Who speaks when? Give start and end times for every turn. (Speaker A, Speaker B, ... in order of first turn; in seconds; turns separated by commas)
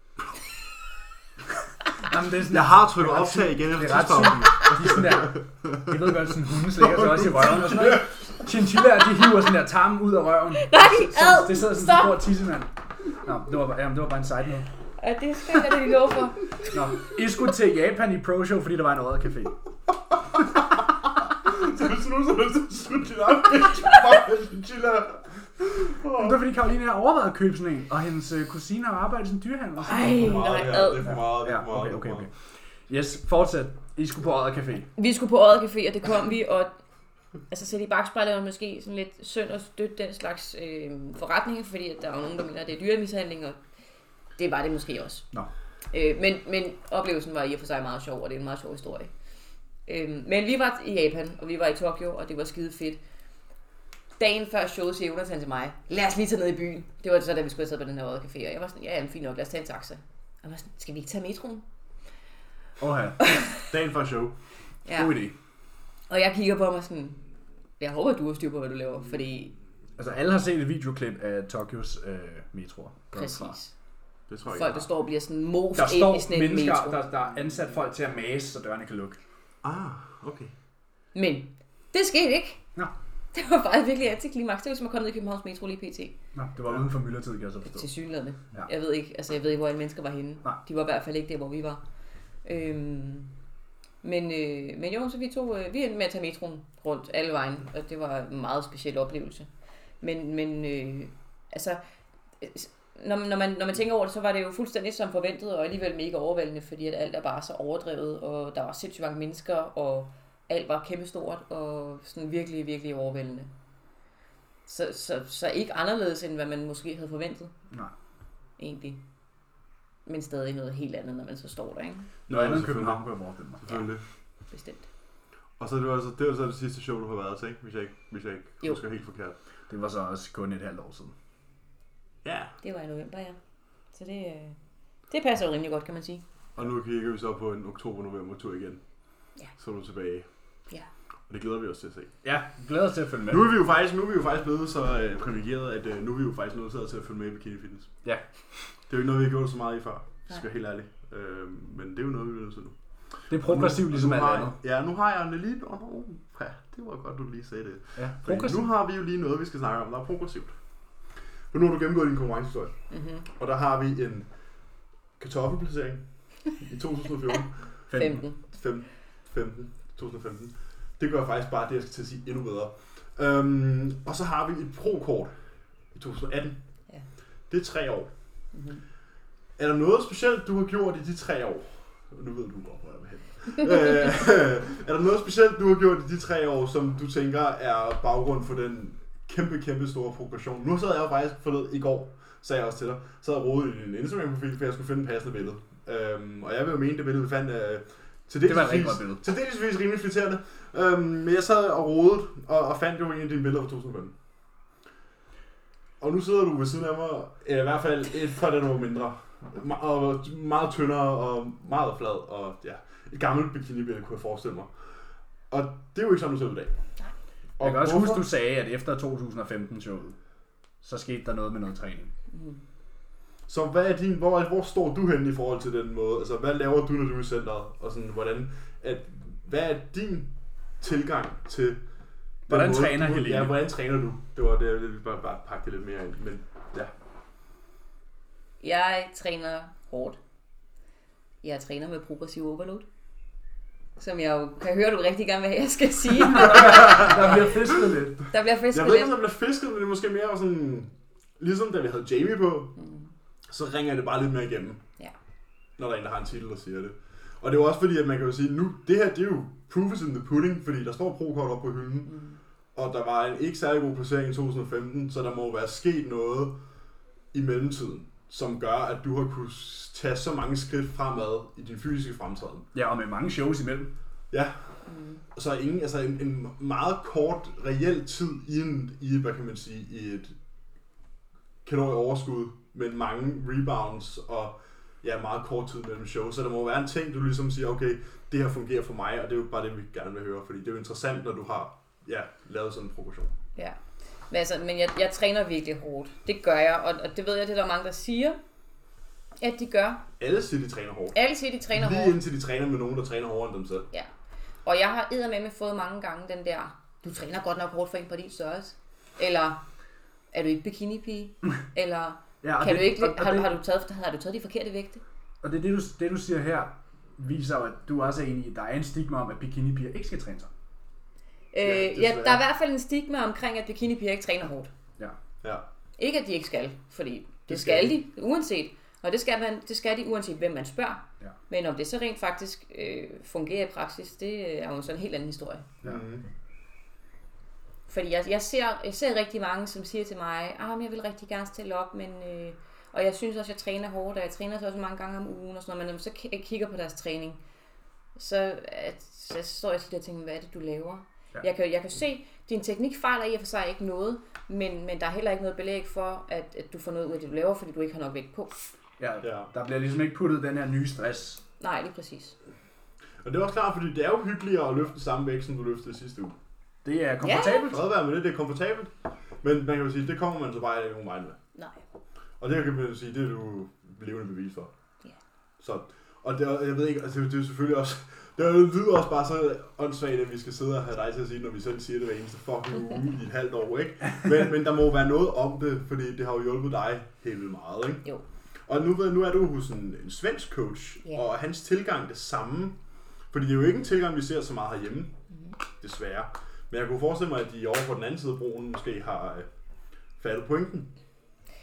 Speaker A: 1.9-14.7, Speaker B: 2.5-6.1, Speaker B: 6.7-8.3, Speaker C: 10.6-12.2, Speaker C: 15.0-16.8, Speaker A: 16.7-19.6, Speaker B: 21.4-26.4, Speaker A: 26.2-32.3, Speaker C: 29.9-31.1, Speaker B: 30.0-32.3, Speaker A: 32.9-34.9, Speaker C: 35.0-36.7, Speaker C: 37.5-43.6, Speaker C: 44.4-45.3, Speaker C: 45.9-49.1, Speaker C: 49.9-53.0, Speaker C: 54.2-61.6, Speaker A: 62.8-63.3, Speaker C: 63.2-63.6, Speaker B: 63.6-64.3, Speaker C: 64.8-65.2, Speaker A: 64.9-65.3, Speaker C: 66.1-67.2, Speaker C: 67.8-69.6, Speaker A: 70.0-73.6, Speaker C: 73.1-73.7, Speaker B: 74.3-74.8, Speaker C: 74.5-77.0, Speaker A: 75.8-79.2, Speaker B: 79.6-80.5, Speaker C: 81.1-82.6, Speaker C: 83.3-86.1, Speaker A: 86.3-87.9, Speaker C: 87.6-91.8, Speaker C: 92.4-93.3, Speaker C: 94.0-99.5, Speaker C: 100.0-101.8, Speaker C: 102.4-113.5, Speaker C: 114.7-117.5, Speaker C: 118.6-119.0, Speaker C: 120.1-122.1, Speaker B: 122.3-124.0, Speaker A: 122.3-123.6, Speaker C: 124.5-124.9, Speaker B: 125.6-129.4, Speaker A: 129.7-131.1, Speaker B: 132.2-132.6, Speaker C: 132.6-133.4, Speaker C: 133.9-134.6, Speaker C: 135.1-136.2, Speaker B: 136.6-138.8, Speaker B: 139.5-140.3, Speaker B: 141.3-142.2, Speaker A: 142.2-143.5, Speaker B: 143.3-147.9, Speaker B: 148.9-160.6, Speaker A: 153.3-154.6, Speaker A: 158.0-158.6, Speaker B: 161.5-162.7, Speaker C: 162.9-163.2, Speaker B: 163.3-164.3, Speaker B: 165.2-175.4, Speaker A: 167.9-168.2, Speaker C: 167.9-168.4, Speaker B: 175.9-176.6, Speaker B: 177.5-178.1, Speaker C: 178.5-178.8, Speaker B: 179.6-204.1, Speaker A: 198.4-199.2, Speaker B: 206.0-214.7, Speaker B: 215.5-216.7, Speaker B: 217.6-218.3, Speaker A: 217.6-220.2, Speaker A: 220.8-222.1, Speaker C: 222.3-222.6, Speaker B: 223.5-231.8, Speaker B: 232.5-236.9, Speaker A: 232.5-233.6, Speaker C: 238.6-240.2, Speaker C: 241.4-242.9, Speaker C: 244.0-247.1, Speaker A: 246.2-248.2, Speaker B: 246.4-248.0, Speaker C: 248.3-249.1, Speaker B: 248.7-252.7, Speaker C: 252.8-253.1, Speaker B: 253.5-254.8, Speaker B: 255.8-262.1, Speaker C: 262.1-262.4, Speaker B: 262.7-266.6, Speaker B: 267.3-272.7, Speaker A: 272.7-273.9, Speaker B: 274.3-274.8, Speaker C: 274.9-275.2, Speaker B: 275.3-280.4, Speaker B: 281.6-293.3, Speaker C: 294.3-298.4, Speaker C: 299.4-300.0, Speaker B: 300.2-301.2, Speaker C: 301.1-302.2, Speaker B: 301.7-303.9, Speaker C: 304.6-309.6, Speaker C: 310.3-315.0, Speaker A: 312.4-313.5, Speaker A: 315.4-320.5, Speaker C: 321.5-324.7, Speaker B: 321.6-322.4, Speaker C: 326.0-335.7, Speaker B: 327.5-327.9, Speaker B: 335.8-336.2, Speaker C: 337.9-347.4, Speaker C: 348.2-358.6, Speaker A: 359.0-361.4, Speaker B: 359.2-359.5, Speaker C: 361.6-362.4, Speaker B: 363.2-366.4, Speaker A: 366.8-367.8, Speaker C: 367.2-367.7, Speaker B: 367.7-371.4, Speaker B: 372.4-374.7, Speaker B: 375.6-388.1, Speaker B: 388.7-392.8, Speaker B: 393.3-395.1, Speaker B: 395.8-399.5, Speaker B: 400.2-400.9